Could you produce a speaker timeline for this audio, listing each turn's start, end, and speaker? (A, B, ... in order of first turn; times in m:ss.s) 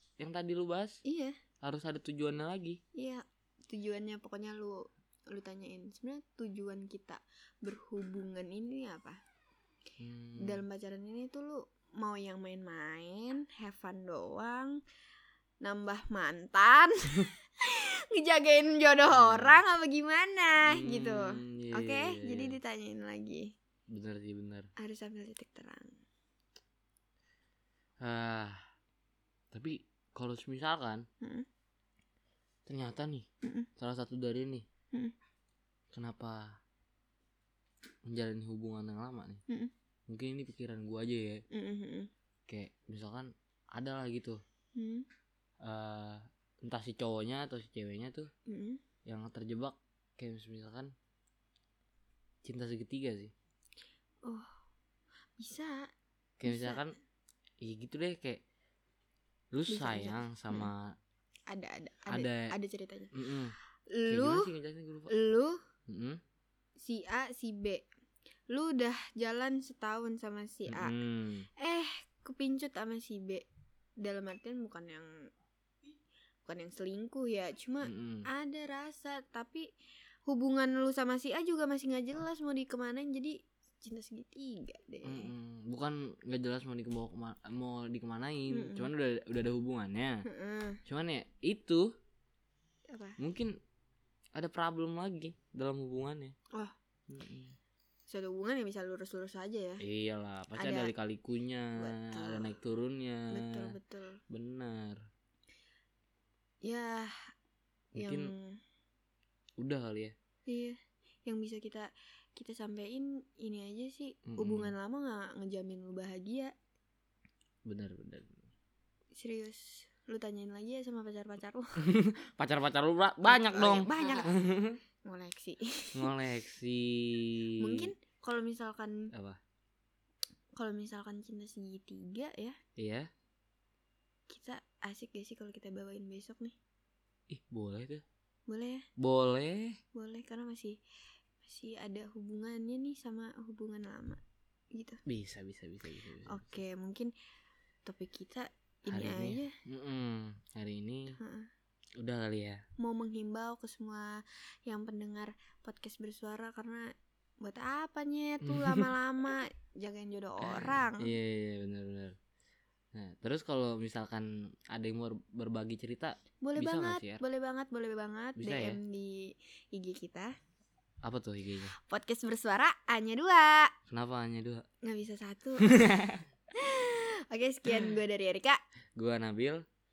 0:00.2-0:01.0 A
0:01.0-0:01.4 B
0:01.6-0:02.8 A
0:02.9-0:09.2 B
0:10.0-0:10.6 A
0:10.4-0:14.8 B
0:15.6-0:23.5 B
0:19.1-0:19.6 A
0:20.6-0:22.6 A
0:23.9-0:24.7 A
0:24.8-0:26.0 B
0:28.0-0:28.6 A
0:29.5-0:31.0 A
0:31.2-0:31.4 B
0:32.6-0:33.2 A
0:33.4-0:33.7 B
0:33.8-0:34.6 A
0:35.9-0:36.6 A
0:38.1-0:39.4 A
0:40.1-0:41.4 A
0:41.5-0:42.1 B
0:42.5-0:44.4 A
0:44.7-0:45.0 B
0:45.6-0:48.3 A
0:48.5-0:48.8 B
0:49.0-0:50.9 A
0:52.4-0:53.3 A
0:54.2-0:54.5 B
0:55.4-0:55.9 B
0:56.4-0:56.9 A
0:56.4-0:56.8 B
0:57.6-0:58.4 A
0:59.5-1:00.9 A
0:59.7-1:00.7 B
1:01.5-1:03.2 B
1:02.1-1:02.6 A
1:03.1-1:03.5 A
1:03.9-1:04.5 B
1:04.0-1:05.1 A
1:05.1-1:05.6 B
1:05.9-1:06.2 A
1:06.8-1:07.9 B
1:08.5-1:11.0 B
1:10.7-1:11.5 A
1:11.6-1:13.4 B
1:14.0-1:15.1 B
1:16.4-1:19.7 B
1:17.8-1:18.2 A
1:20.2-1:25.3 B
1:25.0-1:30.2 A
1:28.5-1:28.9 B
1:30.2-1:30.8 B
1:30.8-1:31.9 A
1:32.9-1:33.2 B
1:33.2-1:33.6 A
1:34.3-1:36.3 A
1:37.1-1:37.5 A
1:38.1-1:39.8 B
1:39.8-1:43.7 A
1:40.5-1:40.9 B
1:41.7-1:42.6 B
1:43.3-1:44.2 B
1:44.3-1:45.0 A
1:46.6-1:47.1 B
1:47.9-1:48.3 A
1:47.9-1:48.6 B
1:49.6-1:50.1 A
1:50.5-1:56.5 B
1:54.3-1:54.7 A
1:57.6-1:58.4 A
1:59.1-2:01.8 B
2:01.8-2:04.8 A
2:03.2-2:04.4 B
2:05.0-2:06.1 B
2:05.9-2:07.9 A
2:07.6-2:09.1 B
2:09.1-2:09.4 A
2:10.6-2:12.6 B
2:12.8-2:13.1 A
2:14.3-2:16.6 B
2:17.3-2:18.0 A
2:18.5-2:18.8 B
2:19.0-2:19.8 A
2:19.9-2:20.8 B
2:21.4-2:24.2 B
2:24.7-2:25.0 B
2:25.0-2:26.5 A
2:26.2-2:27.1 B
2:27.8-2:29.5 B
2:28.9-2:31.2 A
2:31.2-2:31.5 B
2:32.0-2:32.6 A
2:32.8-2:36.9 B
2:37.4-2:41.1 B
2:38.4-2:38.9 A
2:40.4-2:42.1 A
2:42.9-2:47.2 A
2:46.4-2:50.3 B
2:48.4-2:48.8 A
2:51.0-2:51.7 A
2:51.8-2:53.7 B
2:53.9-2:54.6 A
2:54.8-2:55.7 B
2:55.6-2:56.2 A
2:56.5-2:58.6 B
2:59.0-2:59.6 A